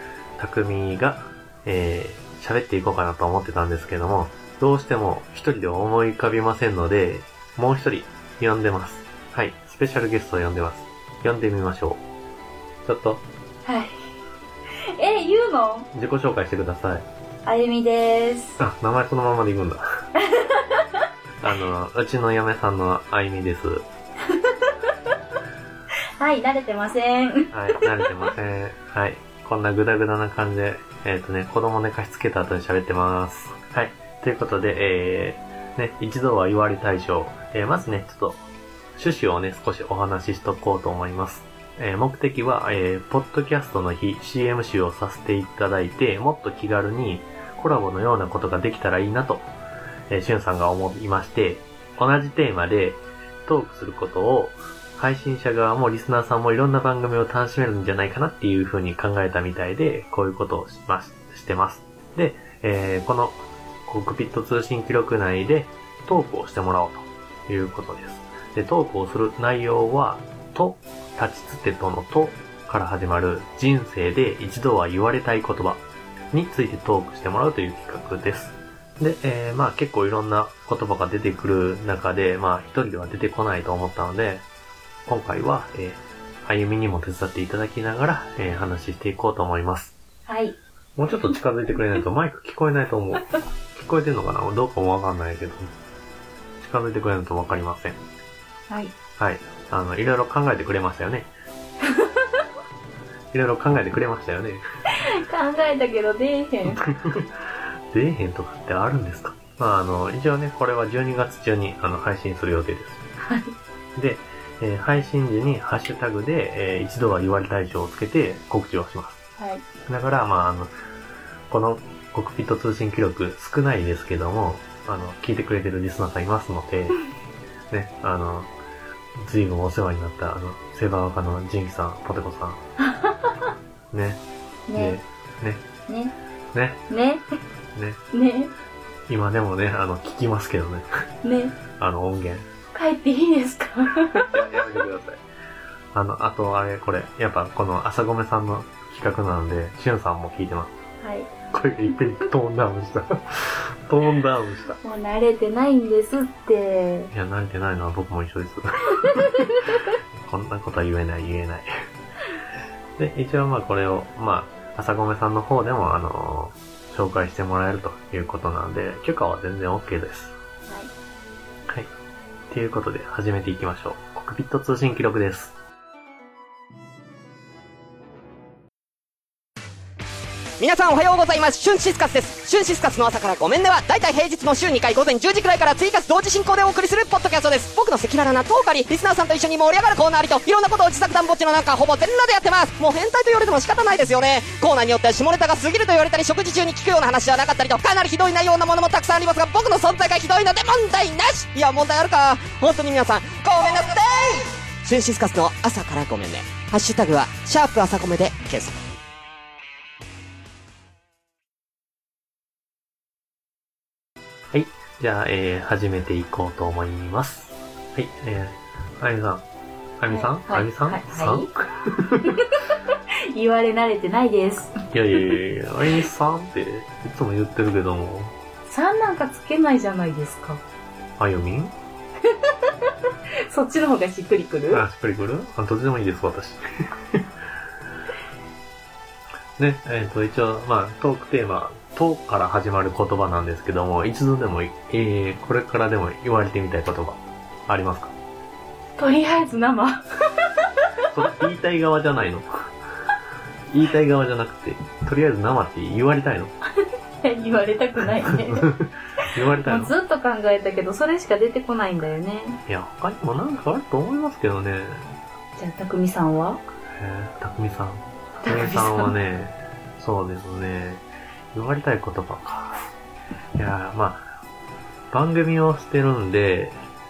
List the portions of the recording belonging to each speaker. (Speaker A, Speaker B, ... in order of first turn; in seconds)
Speaker A: 0.4-12.0, 12.8-13.2, 15.9-17.0, 18.6-19.8, 21.4-23.8, 27.5-38.4, 38.9-49.5, 50.1-84.4, 85.1-89.9, 91.0-95.7, 96.6-98.0, 99.2-101.3, 103.3-104.6, 106.7-107.3, 107.9-113.0, 114.0-119.2, 119.9-120.7, 121.5-127.0, 127.7-128.5, 129.2-132.6, 133.9-134.2, 134.7-135.6, 136.5-136.8, 137.7-138.0, 139.1-141.0, 141.8-142.5, 144.1-145.2, 145.9-150.7, 151.5-154.8, 157.1-161.7, 163.0-170.3, 172.5-175.5, 214.5-219.4, 220.0-222.4, 224.9-228.3, 231.2-231.7, 234.7-237.3, 239.6-248.1, 251.1-252.5, 253.7-256.5, 258.2-259.9, 262.7-265.1, 267.0-272.8, 273.6-274.3, 275.1-276.8
Speaker B: 13.6-14.1, 15.0-15.9, 17.4-18.6, 20.2-20.9, 26.2-27.5, 90.3-90.5, 101.8-102.2, 104.9-106.8, 113.2-113.5, 119.4-119.6, 133.0-133.3, 134.7-135.0, 135.9-136.1, 136.9-137.2, 138.1-138.5, 141.2-141.5, 142.7-144.3, 151.0-151.3, 154.8-157.1, 220.1-221.5, 222.2-225.4, 228.7-230.6, 232.3-232.7, 233.4-234.8, 249.0-250.7, 257.2-258.7, 259.6-262.6, 265.6-266.6, 268.4-269.1
Speaker C: 180.6-208.9